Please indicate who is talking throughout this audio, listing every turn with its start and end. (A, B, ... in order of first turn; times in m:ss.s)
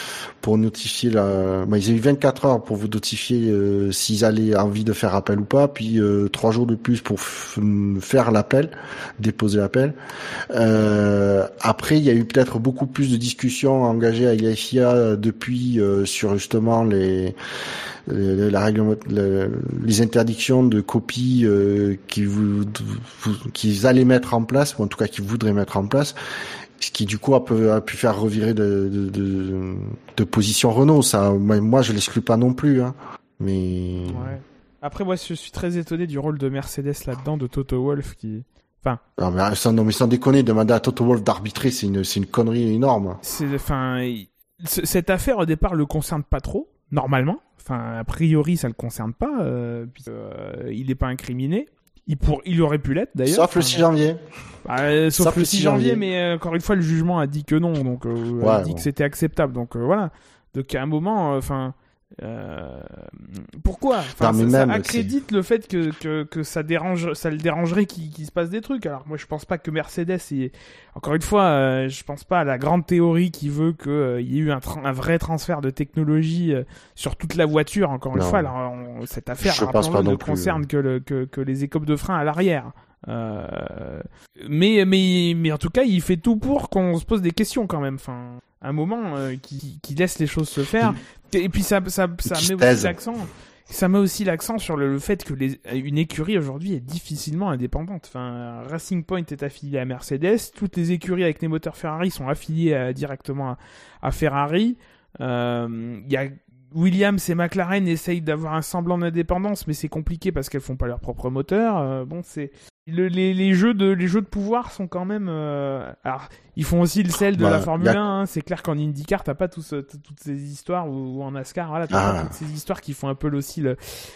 0:00.4-0:10.0 A
0:10.5-0:17.4 A
0:18.1-0:26.2 A
0:26.8-0:34.3 A
0:34.0-0:39.0 B
0:39.2-0:43.2 A
0:43.2-0:53.8 B
0:53.3-0:54.2 A
0:54.6-1:03.1 B
0:55.1-0:56.0 A
0:58.4-0:58.8 A
1:03.6-2:03.8 B
1:04.2-1:05.1 A
1:18.1-1:18.5 A
1:19.4-1:20.6 A
1:32.3-1:32.9 A
1:57.4-1:58.0 A
2:01.9-2:02.3 A